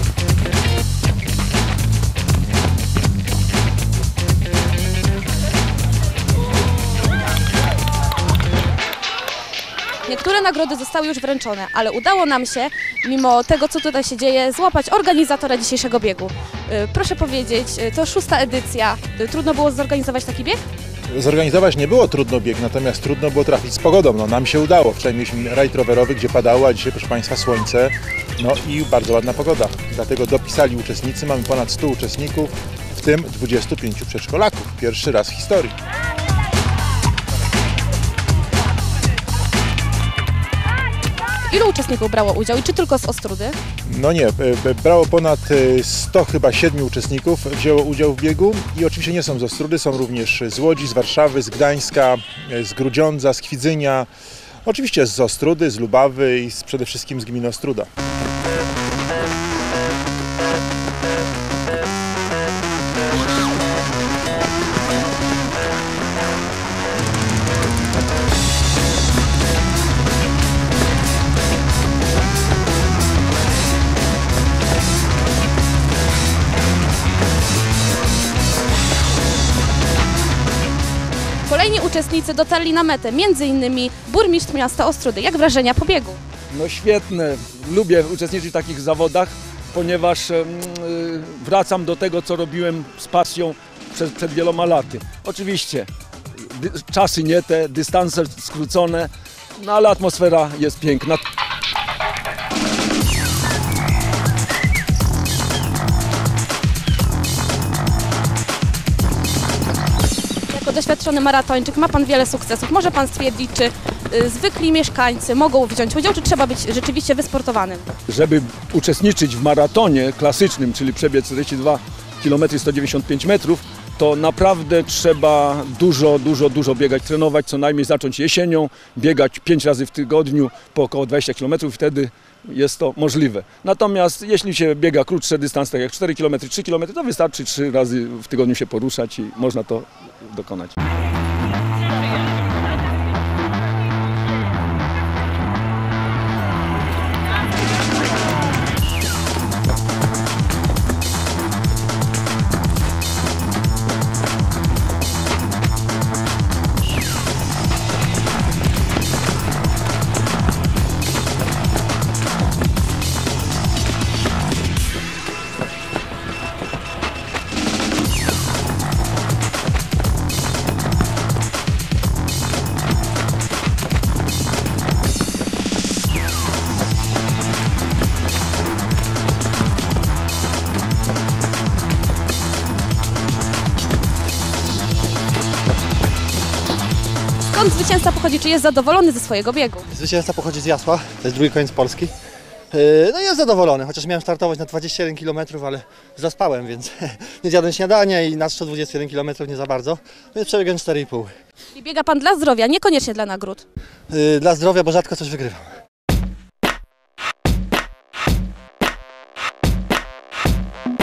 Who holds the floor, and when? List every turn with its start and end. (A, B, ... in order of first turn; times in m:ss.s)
0:10.1-0:20.6 A
0:21.1-0:35.8 B
0:41.5-0:43.6 A
0:43.9-0:54.1 B
0:54.6-0:57.9 B
1:21.5-1:26.2 A
1:26.5-1:41.2 C
1:50.5-1:57.9 A
1:58.1-2:20.7 C
3:07.5-3:09.9 A
3:09.9-3:12.1 D
3:12.7-3:21.3 D
3:21.7-3:23.6 A
3:24.1-3:25.7 D